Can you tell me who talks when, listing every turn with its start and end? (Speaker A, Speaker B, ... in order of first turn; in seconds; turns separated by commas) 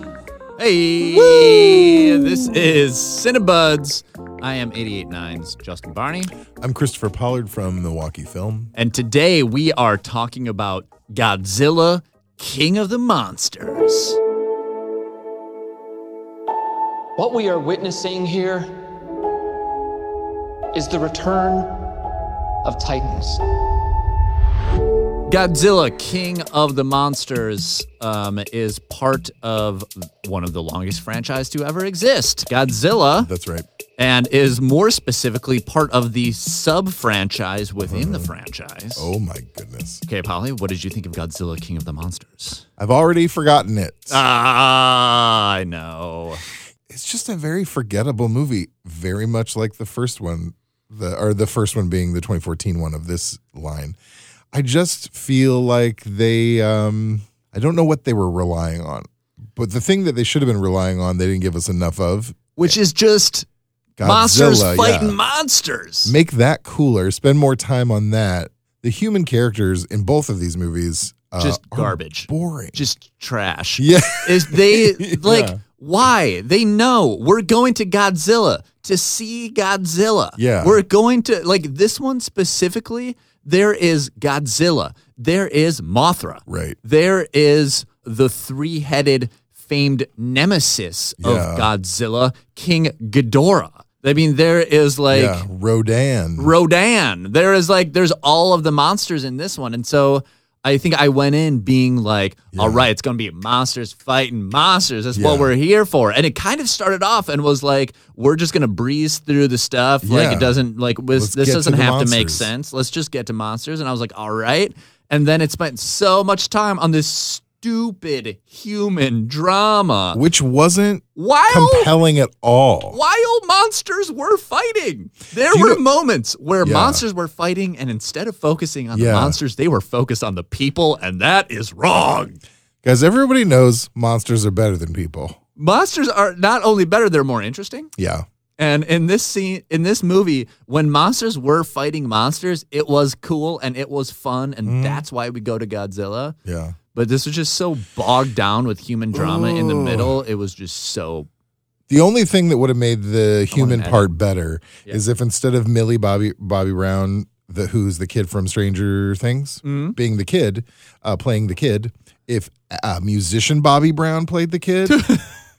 Speaker A: 0.6-6.3, Speaker B: 6.6-8.7, Speaker A: 8.8-14.2, Speaker C: 17.2-18.7, Speaker C: 20.7-21.7, Speaker C: 22.6-23.4, Speaker A: 25.3-33.3, Speaker B: 33.2-33.7, Speaker A: 34.0-39.1, Speaker B: 37.9-38.3, Speaker B: 39.0-40.0, Speaker A: 40.1-42.6, Speaker B: 42.8-44.2, Speaker A: 44.1-46.4, Speaker B: 46.9-54.0, Speaker B: 54.5-62.8, Speaker A: 62.6-63.5, Speaker B: 64.0-65.2, Speaker A: 64.0-66.2, Speaker B: 66.1-72.8, Speaker A: 71.4-95.5, Speaker B: 73.8-75.6, Speaker B: 80.4-80.8, Speaker B: 86.5-86.8, Speaker B: 91.2-91.7, Speaker B: 95.1-96.5, Speaker A: 96.4-120.2, Speaker B: 102.5-102.9, Speaker B: 105.1-105.5, Speaker B: 110.0-110.6, Speaker B: 111.1-112.5, Speaker B: 120.1-123.0, Speaker A: 121.2-121.9, Speaker A: 122.9-132.4, Speaker B: 125.5-125.8, Speaker B: 126.6-127.0, Speaker B: 128.9-129.4, Speaker B: 132.8-135.4, Speaker A: 135.6-137.9, Speaker B: 138.0-138.2, Speaker A: 138.6-146.4, Speaker B: 144.7-145.0, Speaker B: 146.4-146.8, Speaker A: 146.9-151.3, Speaker B: 149.1-150.2, Speaker B: 151.9-165.1, Speaker A: 153.5-154.2, Speaker A: 159.6-160.0, Speaker A: 164.9-165.3